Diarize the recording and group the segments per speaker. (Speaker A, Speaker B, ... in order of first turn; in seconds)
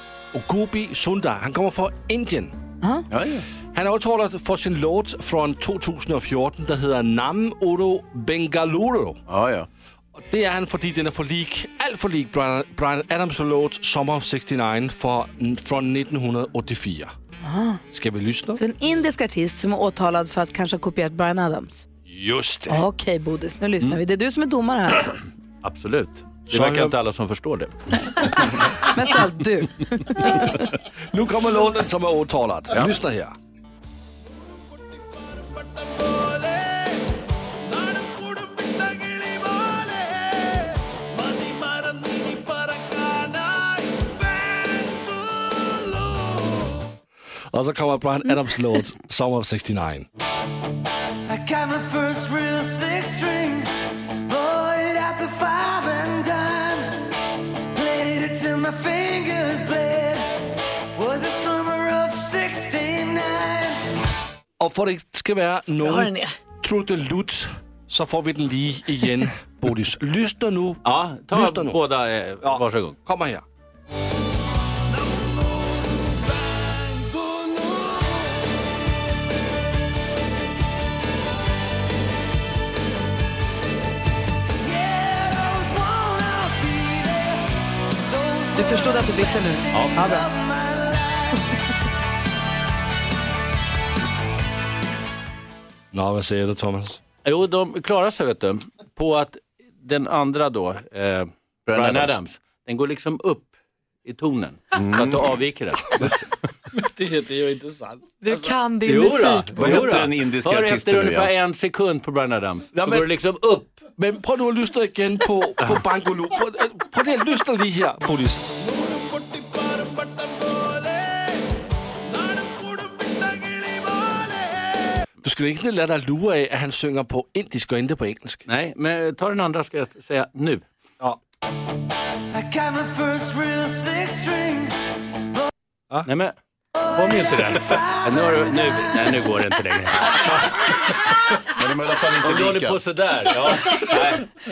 Speaker A: 0.3-2.5, 3.7-9.2, 10.1-17.1, 17.9-18.6, 22.1-22.8, 26.5-26.9, 31.1-33.3, 47.5-50.1, 64.6-71.8, 72.4-73.4, 95.9-97.0, 106.8-108.4, 112.7-113.1, 113.9-118.5, 122.2-123.3, 125.2-128.4
Speaker B: 2.8-3.0, 17.4-17.8, 18.6-21.8, 22.7-25.1, 28.4-30.6, 88.5-90.3
Speaker C: 3.1-3.5, 9.3-9.7, 101.7-102.2, 104.7-105.3, 109.5-111.3, 141.5-142.8
Speaker D: 25.6-28.4, 70.8-73.0, 89.7-90.0, 97.2-103.5, 104.0-106.2, 108.8-113.9, 128.4-130.7, 136.0-136.3, 136.9-140.6, 142.2-144.3
Speaker E: 51.3-53.7, 54.3-57.1, 57.7-60.4, 61.0-63.8, 84.6-87.4, 88.1-91.4, 132.3-134.8, 137.1-138.3
Speaker F: 65.8-66.3, 108.2-109.7